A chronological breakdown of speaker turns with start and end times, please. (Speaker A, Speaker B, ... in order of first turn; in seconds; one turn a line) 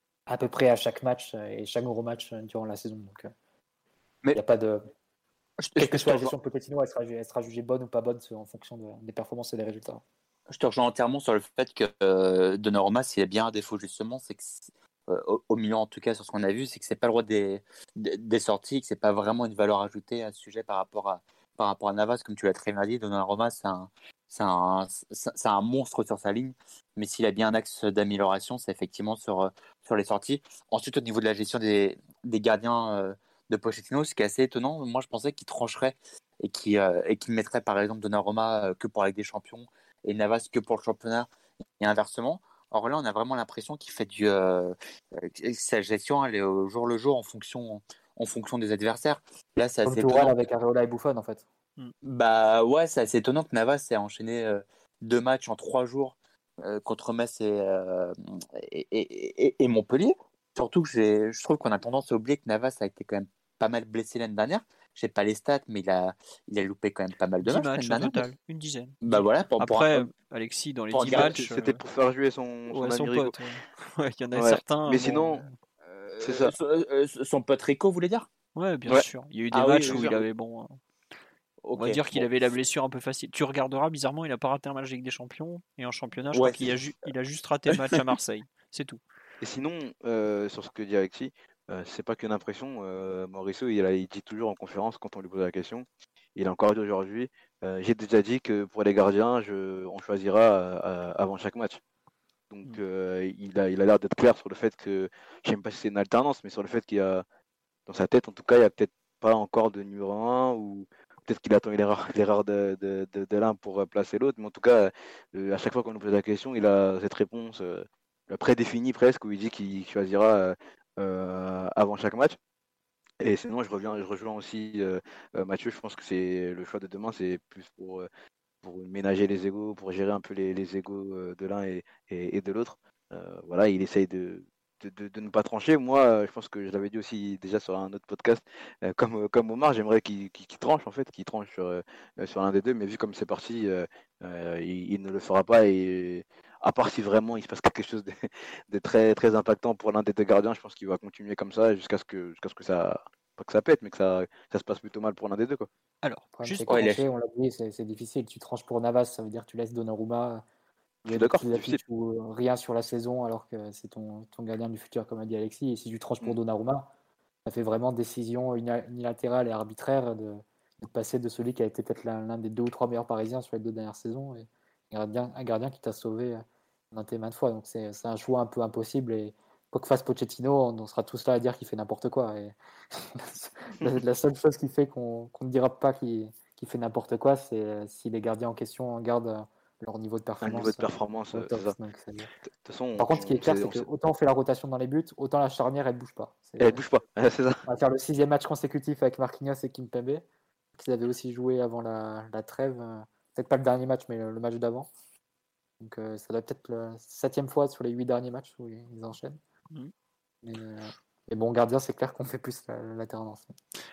Speaker A: 0.3-3.3
Speaker A: 4.3-4.9
Speaker B: 5.6-6.3
Speaker A: 5.8-10.0
Speaker B: 10.5-41.3
Speaker B: 41.8-50.4
Speaker A: 49.9-51.5
Speaker B: 52.0-68.3
Speaker C: 67.4-71.8
Speaker B: 69.0-70.1
Speaker B: 70.9-71.3
Speaker D: 71.1-73.3
Speaker C: 72.7-75.5
Speaker D: 74.3-75.5
Speaker B: 75.8-78.3
Speaker D: 76.2-76.5
Speaker C: 78.6-80.8
Speaker B: 79.5-80.2
Speaker B: 81.6-82.3
Speaker C: 81.8-89.0
Speaker B: 86.3-86.8
Speaker D: 89.4-101.8
Speaker D: 102.5-107.2
Speaker D: 107.9-122.4
Speaker D: 123.2-128.1
Speaker D: 128.6-155.7
Speaker C: 156.0-156.8
Speaker A: 156.4-160.4
Speaker B: 156.7-157.1
Speaker D: 161.1-161.8
Speaker A: 161.1-166.9
Speaker A: 167.5-192.3
Speaker D: 190.4-191.8
Speaker D: 192.7-193.9
Speaker A: 193.0-196.8
Speaker D: 196.6-197.6
Speaker A: 197.7-200.2
Speaker A: 200.8-204.9
Speaker A: 205.8-209.4
Speaker A: 210.4-213.5